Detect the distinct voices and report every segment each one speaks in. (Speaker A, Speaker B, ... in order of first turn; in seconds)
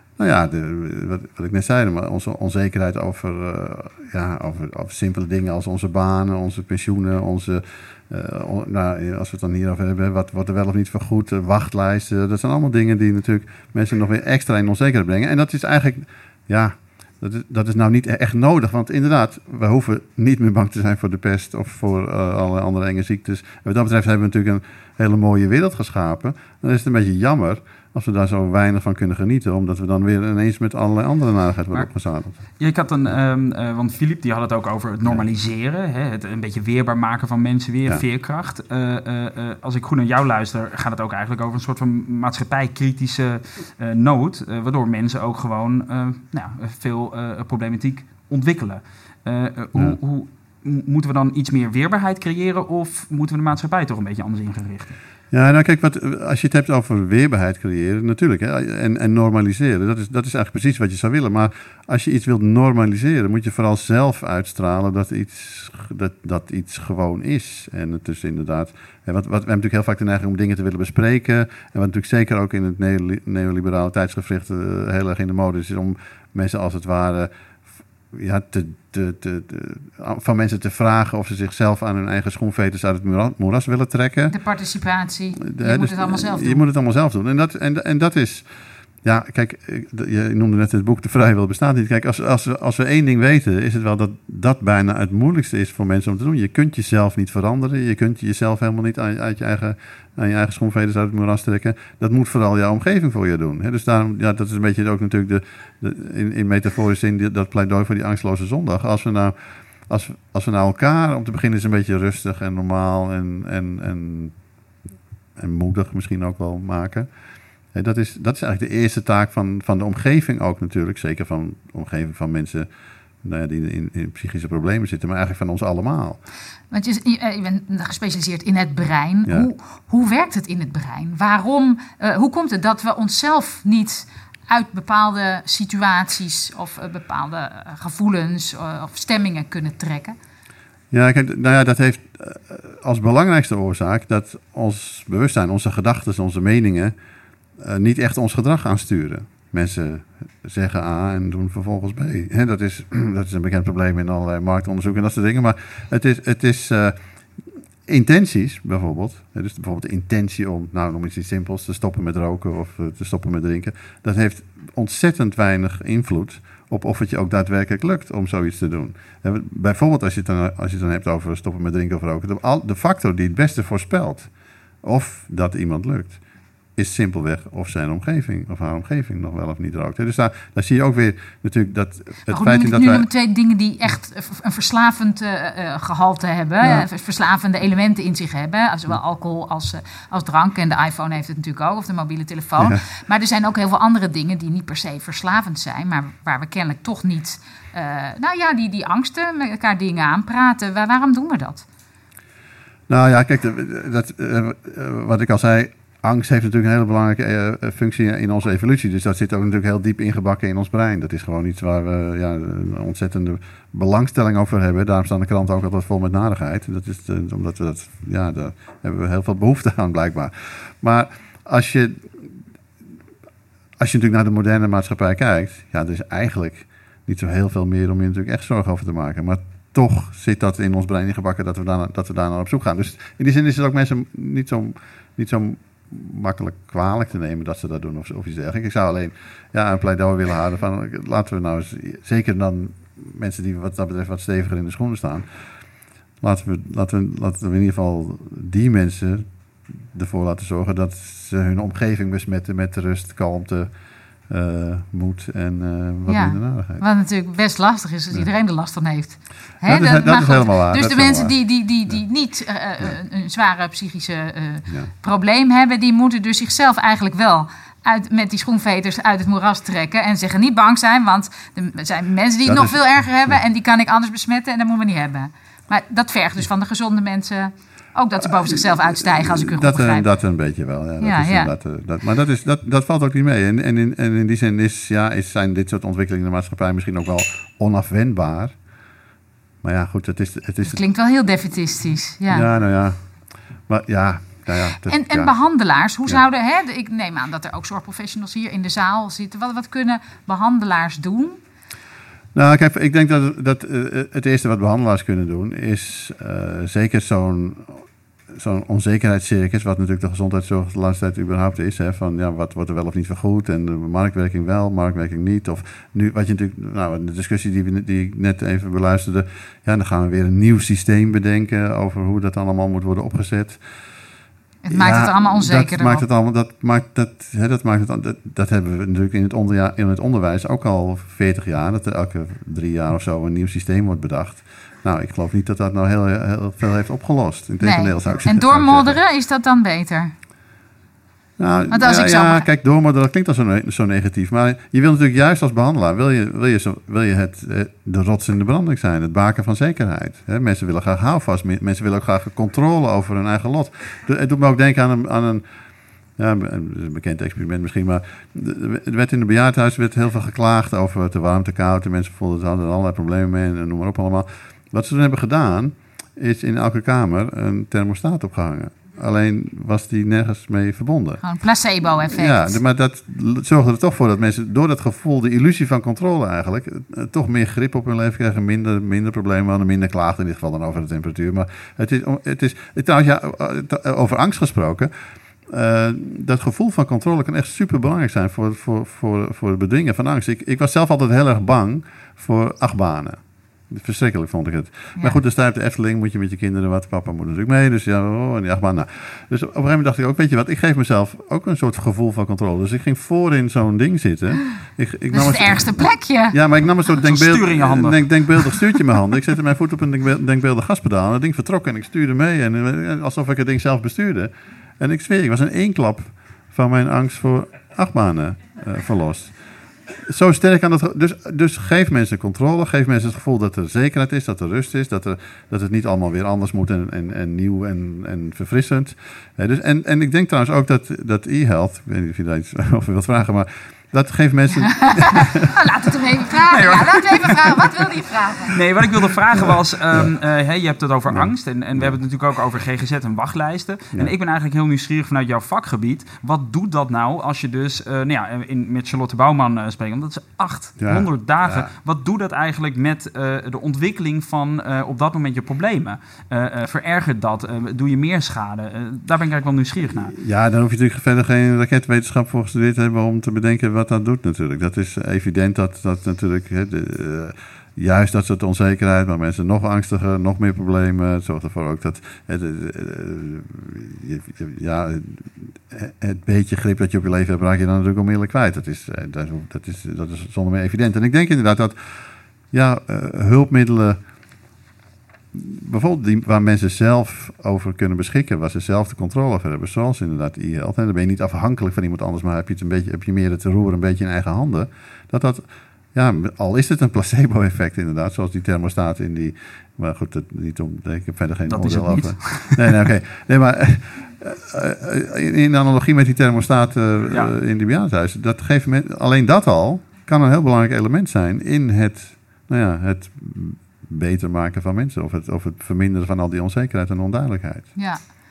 Speaker A: 0.2-32.4, 55.3-77.3, 78.1-84.3, 85.4-88.5, 89.0-109.3, 109.9-114.3, 115.4-117.1, 117.7-122.7, 123.2-126.2, 140.9-146.9, 147.6-157.0, 157.9-174.3, 174.8-176.2, 176.8-183.1, 186.6-186.8, 202.9-222.3, 223.8-245.2, 246.2-253.7, 254.3-256.8, 259.6-261.4, 272.4-273.4, 278.4-288.6, 289.6-290.8, 292.3-293.0, 293.7-295.3, 302.3-323.6, 324.7-339.0, 341.4-355.4, 356.2-371.2, 372.1-384.9, 385.5-419.3, 419.9-435.5, 439.4-440.1, 441.1-442.0, 450.8-451.7, 460.0-481.8, 482.5-484.0, 485.3-495.4, 495.9-517.8
Speaker B: 32.6-54.9, 407.0-408.8, 436.5-437.5, 438.5-460.1, 501.5-502.8
Speaker C: 84.3-86.6, 126.7-140.2, 182.3-201.6, 256.1-280.1, 281.0-281.5, 290.6-292.5, 294.8-301.4, 324.6-326.1, 337.6-340.1, 341.7-342.5, 371.2-372.6, 405.1-406.4, 434.7-438.6, 517.8-518.0